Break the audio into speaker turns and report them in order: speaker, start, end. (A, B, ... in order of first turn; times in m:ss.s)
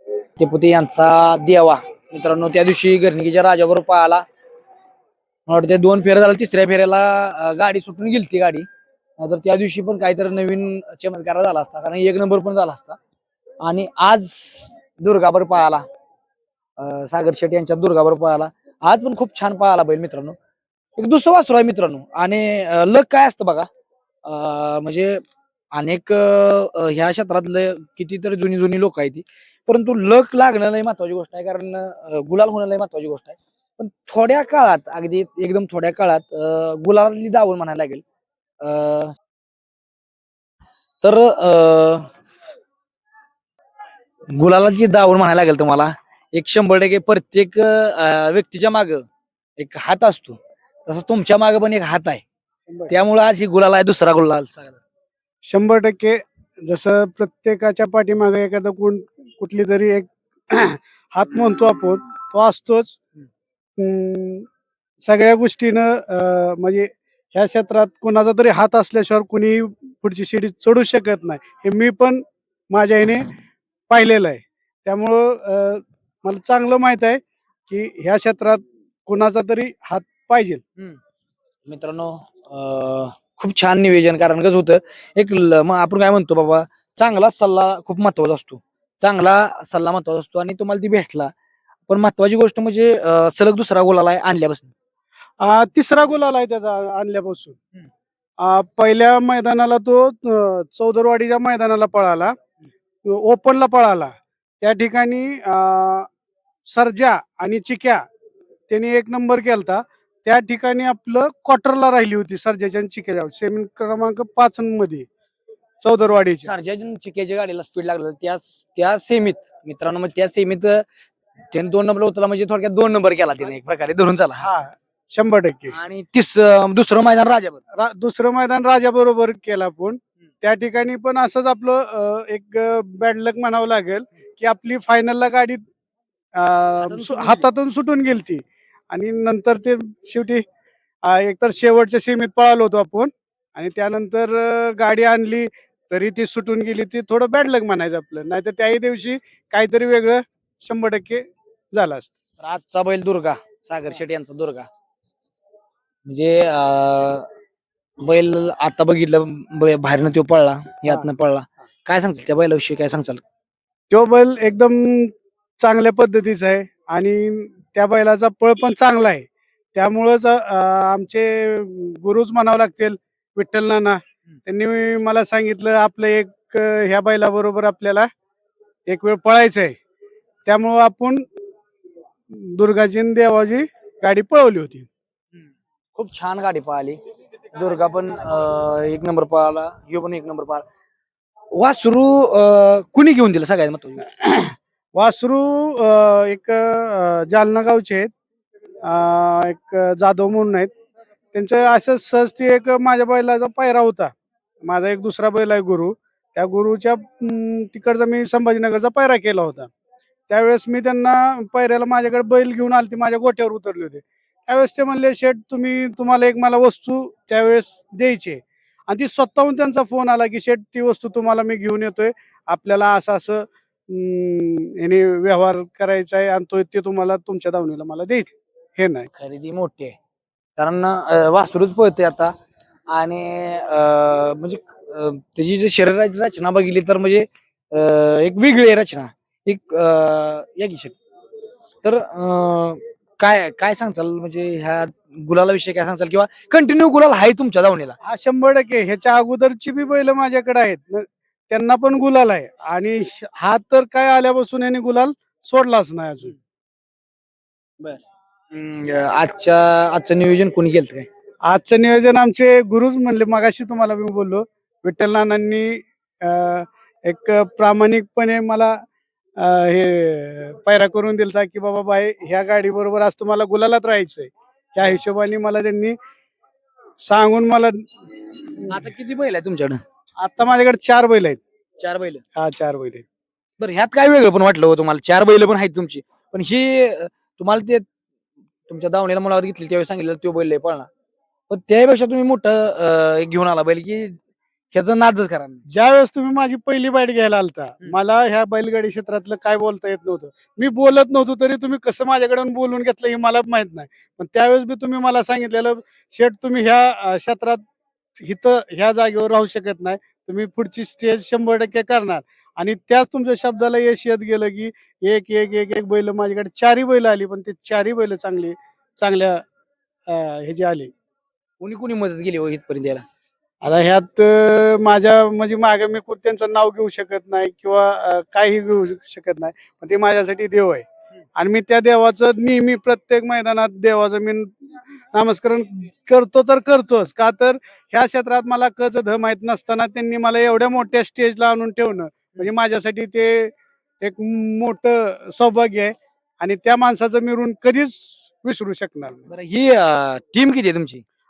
0:00.4-0:04.2 A
0:05.5-0:08.7 A
0:09.2-0:13.0 A
0:13.6-0:15.8 A
0:16.8-0:20.4 A
0:21.0-0:23.7 A
0:24.2-0:25.2 A
0:25.7-0:38.0 A
0:38.6-0:39.1 A
0:41.0-0:42.1 A
0:44.3-0:49.0 A
0:49.6-0:52.2 A
0:52.7-0:52.9 B
0:52.9-0:54.8 A
0:55.5-1:03.0 B
1:03.8-1:04.4 B
1:05.0-1:13.3 B
1:13.9-1:20.6 B
1:21.7-1:31.3 A
1:31.9-1:34.7 A
1:35.4-1:37.6 B
1:38.4-1:42.3 B
1:43.0-1:46.1 B
1:46.7-1:48.0 B
1:48.7-1:55.1 B
1:55.8-1:56.5 B
1:56.4-2:00.8 A
2:01.5-2:04.5 A
2:04.4-2:05.7 B
2:05.7-2:07.6 A
2:07.7-2:15.6 B
2:16.3-2:20.4 B
2:16.8-2:17.4 A
2:21.0-2:32.1 B
2:32.4-2:34.7 A
2:36.1-2:37.2 A
2:38.0-2:43.2 A
2:43.9-2:58.1 B
2:58.9-2:59.8 B
3:00.4-3:01.2 B
3:02.3-3:04.9 B
3:05.9-3:07.0 A
3:07.5-3:10.7 A
3:11.5-3:14.1 A
3:14.1-3:18.1 B
3:18.8-3:20.7 B
3:21.3-3:24.1 B
3:24.6-3:29.7 B
3:30.3-3:49.1 B
3:49.1-3:50.0 A
3:50.6-3:52.3 A
3:52.9-4:01.0 A
4:01.8-4:08.0 A
4:08.0-4:16.3 B
4:17.8-4:21.1 A
4:21.5-4:28.8 B
4:29.4-4:36.0 B
4:37.0-4:38.8 B
4:38.7-4:39.8 A
4:40.2-4:41.4 B
4:41.8-4:42.2 A
4:42.4-4:43.0 B
4:43.6-4:47.8 A
4:48.7-4:50.9 A
4:51.5-4:54.2 A
4:54.7-4:55.6 A
4:55.7-5:07.6 B
5:08.2-5:19.4 B
5:20.1-5:20.9 B
5:21.6-5:23.0 A
5:23.6-5:30.8 B
5:31.4-5:49.3 B
5:49.3-5:51.0 A